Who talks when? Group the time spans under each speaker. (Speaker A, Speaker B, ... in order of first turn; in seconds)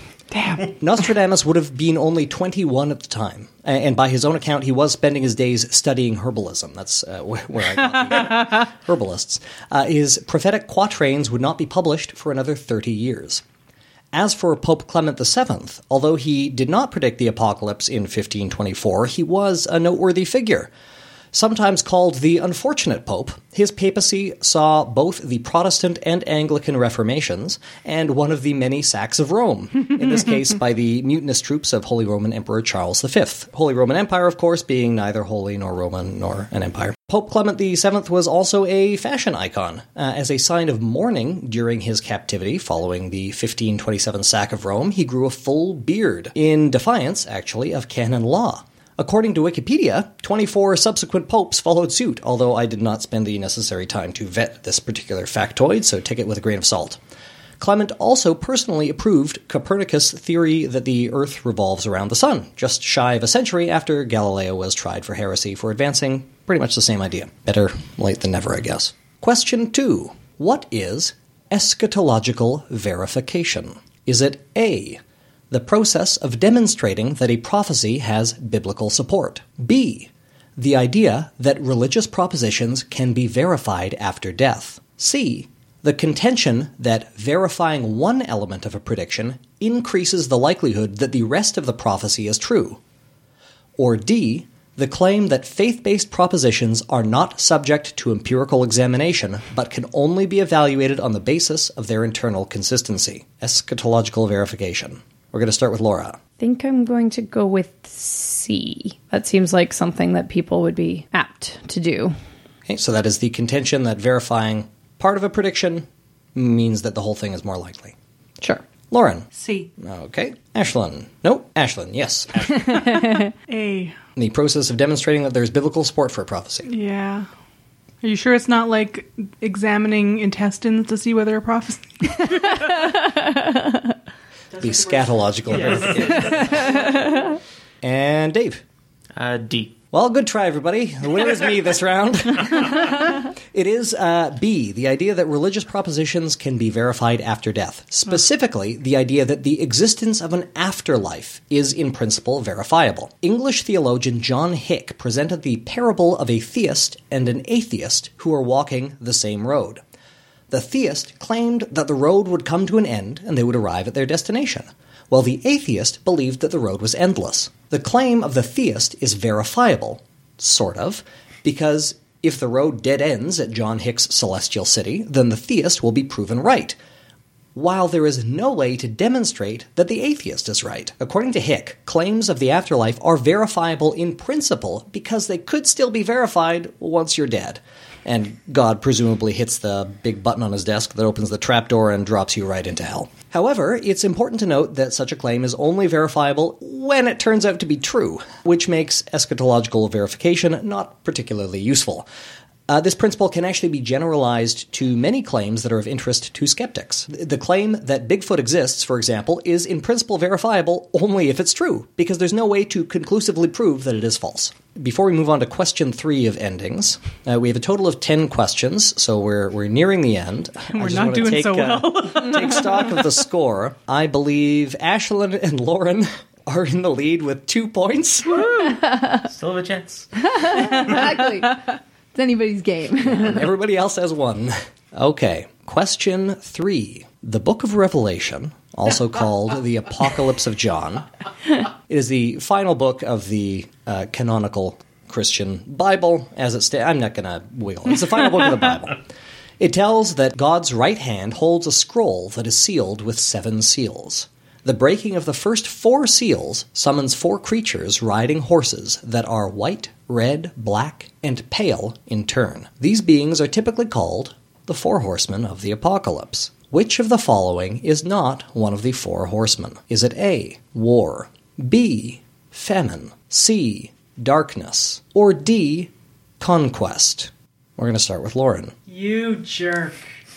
Speaker A: 0.3-0.7, 123.5-124.0, 126.7-127.3, 128.0-132.6, 220.7-222.9, 228.3-228.8
Speaker B: 0.8-13.4, 14.1-20.7, 21.3-57.0, 57.6-92.8, 93.8-106.2, 112.7-118.0, 118.9-122.9, 124.2-126.7, 134.6-136.6, 137.8-138.6, 139.9-159.8, 160.5-176.8, 177.6-202.1, 202.7-228.5, 233.0-241.1, 241.9-249.0, 249.6-278.7
Speaker C: 106.4-112.2, 122.8-123.3, 132.8-133.9, 228.7-229.2, 230.2-233.5
Speaker D: 119.3-119.7, 134.5-137.3, 278.9-280.0
Speaker E: 135.7-136.4, 139.2-139.8, 229.2-230.3